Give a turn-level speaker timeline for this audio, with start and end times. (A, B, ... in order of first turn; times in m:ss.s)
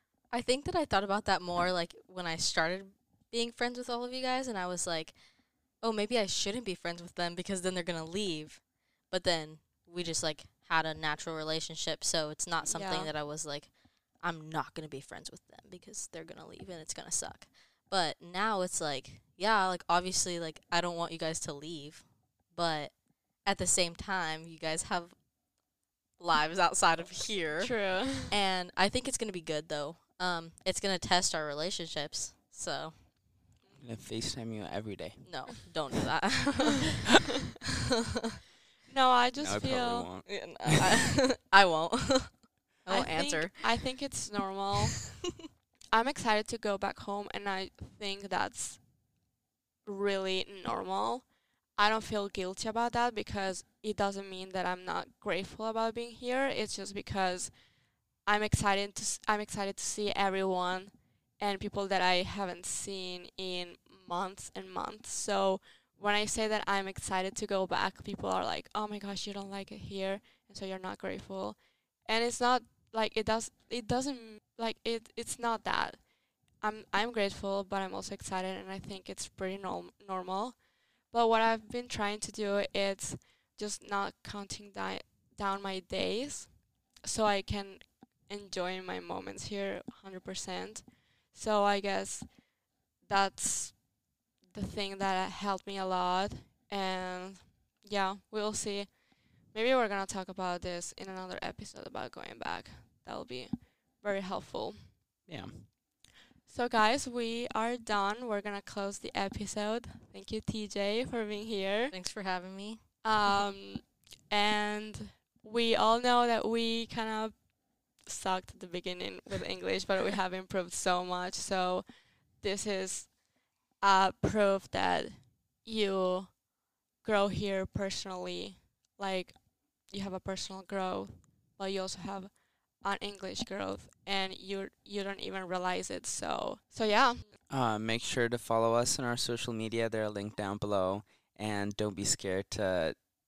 0:00.3-0:25.3 A
0:12.6-0:13.1 B
0:26.2-0:33.0 A
0:27.6-0:28.4 B
0:33.8-0:35.3 C
0:35.2-0:37.1 A
0:38.9-0:40.1 B
0:39.4-0:40.9 C
0:40.3-0:44.0 A
0:42.9-0:45.1 B
0:45.9-0:48.9 B
0:49.8-0:57.7 B
0:58.2-1:32.4 B
1:33.0-1:33.8 B
1:34.5-1:45.0 B
1:45.3-1:45.7 C
1:46.5-1:52.0 B
1:51.9-1:53.3 A
1:53.0-2:03.2 B
2:03.8-2:06.4 B
2:07.0-2:17.4 B
2:17.5-2:23.0 C